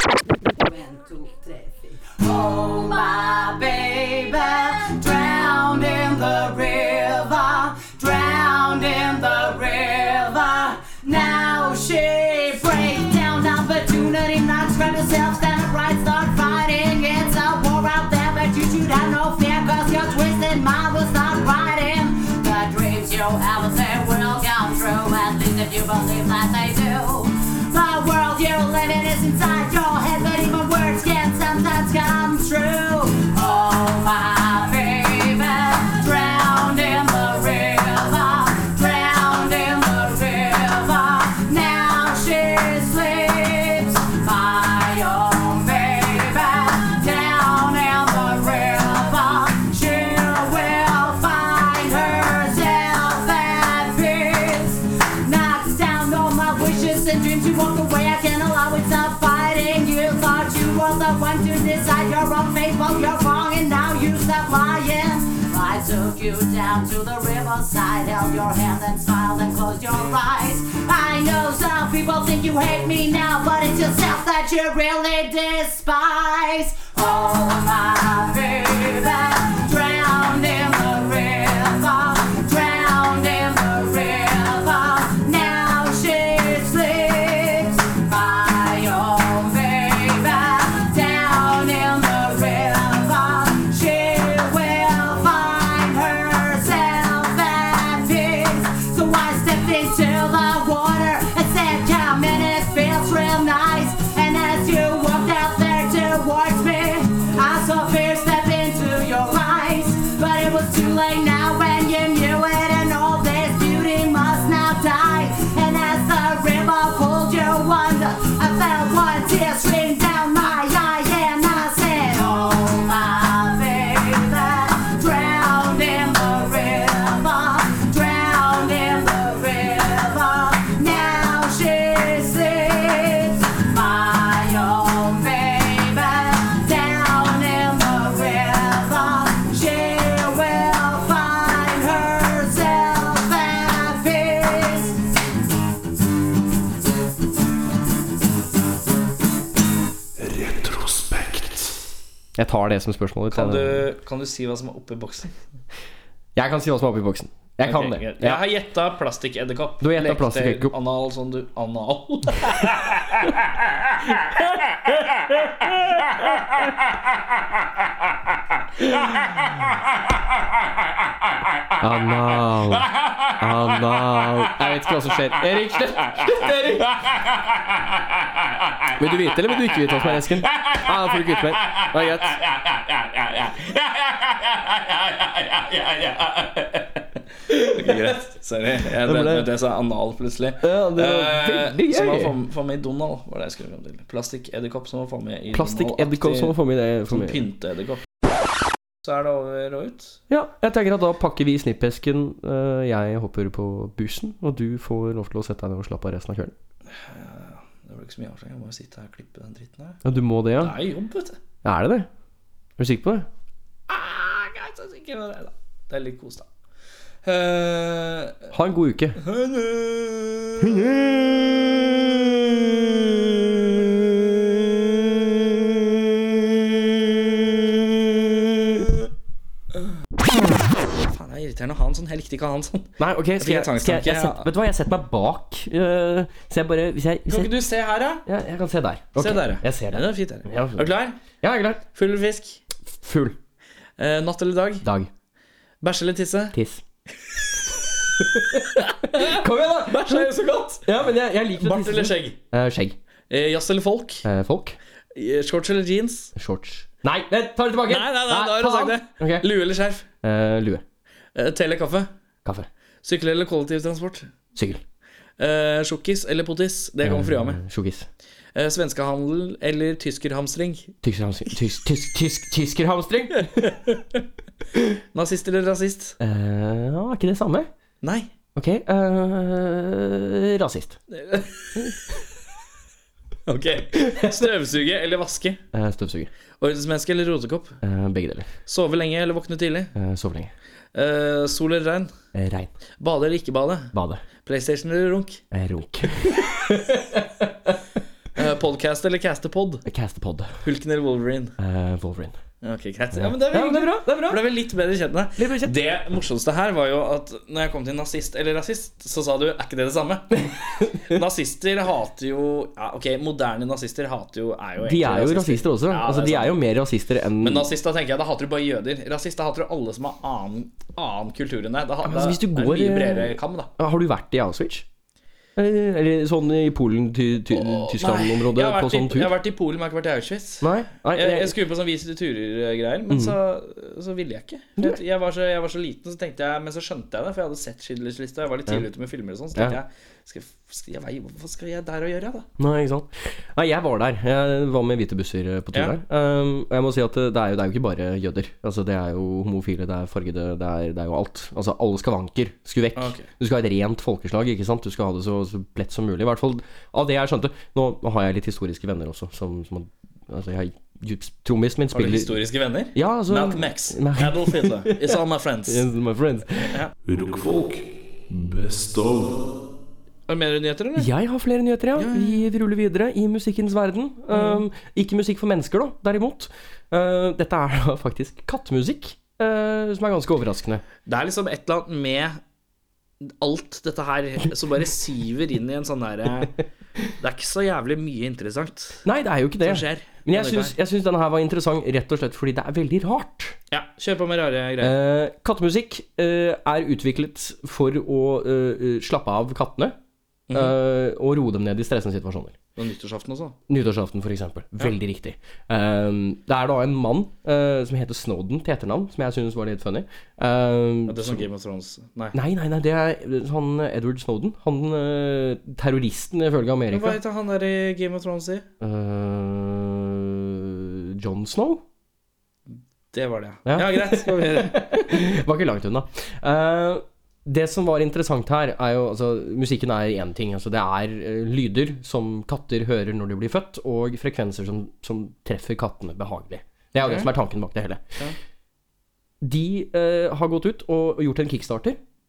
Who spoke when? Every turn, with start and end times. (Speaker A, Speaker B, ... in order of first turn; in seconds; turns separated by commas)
Speaker A: 0.6-145.0, Speaker B: 150.2-151.6, Speaker C: 152.4-153.8, Speaker D: 153.3-155.3, Speaker C: 156.4-158.4, Speaker D: 157.6-163.1, Speaker C: 159.8-160.7, Speaker C: 171.8-176.9, Speaker C: 179.0-182.4, Speaker D: 183.0-183.8, Speaker D: 184.9-186.8, Speaker C: 187.5-188.1, Speaker D: 187.7-196.6, Speaker C: 189.0-189.5, Speaker C: 190.6-192.3, Speaker C: 195.5-197.4, Speaker D: 197.1-198.0, Speaker D: 199.0-200.2, Speaker C: 200.3-206.5, Speaker D: 206.9-210.0, Speaker C: 210.0-210.8, Speaker D: 210.6-211.4, Speaker C: 211.6-212.1, Speaker C: 212.8-213.3, Speaker D: 213.9-216.5, Speaker D: 217.2-218.4, Speaker C: 218.5-219.2, Speaker D: 219.2-220.8, Speaker C: 220.6-221.6, Speaker D: 231.0-234.5, Speaker C: 233.0-237.5, Speaker D: 237.3-238.2, Speaker C: 238.3-240.9, Speaker D: 239.2-241.2, Speaker C: 241.4-241.8, Speaker D: 241.9-242.6, Speaker C: 243.0-243.4, Speaker D: 244.0-244.8, Speaker C: 244.8-245.1, Speaker D: 245.8-246.6, Speaker C: 246.5-246.8, Speaker C: 248.3-253.0, Speaker D: 249.1-250.9, Speaker D: 251.6-252.4, Speaker D: 253.3-254.2, Speaker C: 254.2-254.8, Speaker D: 255.2-256.3, Speaker C: 256.4-259.5, Speaker D: 257.9-260.0, Speaker C: 260.2-260.8, Speaker D: 261.4-262.1, Speaker D: 263.0-264.3, Speaker C: 264.6-264.8, Speaker D: 265.4-267.6, Speaker C: 267.0-268.1, Speaker D: 268.6-270.9, Speaker C: 271.0-273.7, Speaker D: 273.6-274.0, Speaker D: 275.1-276.2, Speaker C: 276.2-277.7, Speaker D: 278.0-278.3, Speaker C: 278.6-281.0, Speaker D: 281.1-281.8, Speaker D: 283.5-285.6, Speaker C: 284.0-284.4, Speaker C: 285.7-286.3, Speaker D: 286.6-287.8, Speaker C: 287.8-288.5, Speaker D: 288.7-289.9, Speaker C: 290.0-290.5, Speaker D: 290.9-292.1, Speaker C: 292.4-292.7, Speaker D: 293.0-295.4, Speaker C: 293.9-294.2, Speaker C: 295.5-297.8, Speaker D: 298.4-299.9, Speaker C: 299.9-300.5, Speaker D: 300.6-301.6, Speaker C: 301.6-302.4, Speaker D: 302.6-310.5, Speaker C: 303.1-304.4, Speaker C: 305.4-305.8, Speaker C: 310.4-311.2, Speaker D: 311.1-316.6, Speaker C: 314.8-317.7, Speaker D: 317.4-323.7, Speaker C: 322.0-324.9, Speaker C: 325.6-329.4, Speaker D: 327.5-342.5, Speaker C: 330.6-331.6, Speaker C: 333.1-333.4, Speaker C: 339.6-339.8, Speaker C: 342.6-362.4, Speaker D: 353.0-353.3, Speaker D: 361.9-365.9, Speaker C: 362.9-366.8, Speaker B: 367.1-369.5, Speaker D: 370.3-371.1, Speaker C: 371.0-380.8, Speaker D: 371.9-372.5, Speaker D: 374.3-374.6, Speaker D: 381.1-382.4, Speaker D: 383.2-386.6, Speaker D: 387.2-389.0, Speaker C: 389.1-393.6, Speaker D: 389.6-390.8, Speaker D: 393.7-394.9, Speaker C: 394.8-400.0, Speaker D: 400.5-400.8, Speaker C: 400.5-402.6, Speaker D: 402.8-403.6, Speaker C: 403.7-411.5, Speaker D: 411.1-412.4, Speaker C: 412.3-417.2, Speaker D: 416.9-418.6, Speaker C: 418.8-421.8, Speaker D: 423.1-425.1, Speaker C: 423.7-438.0, Speaker D: 436.9-437.3, Speaker C: 439.4-442.0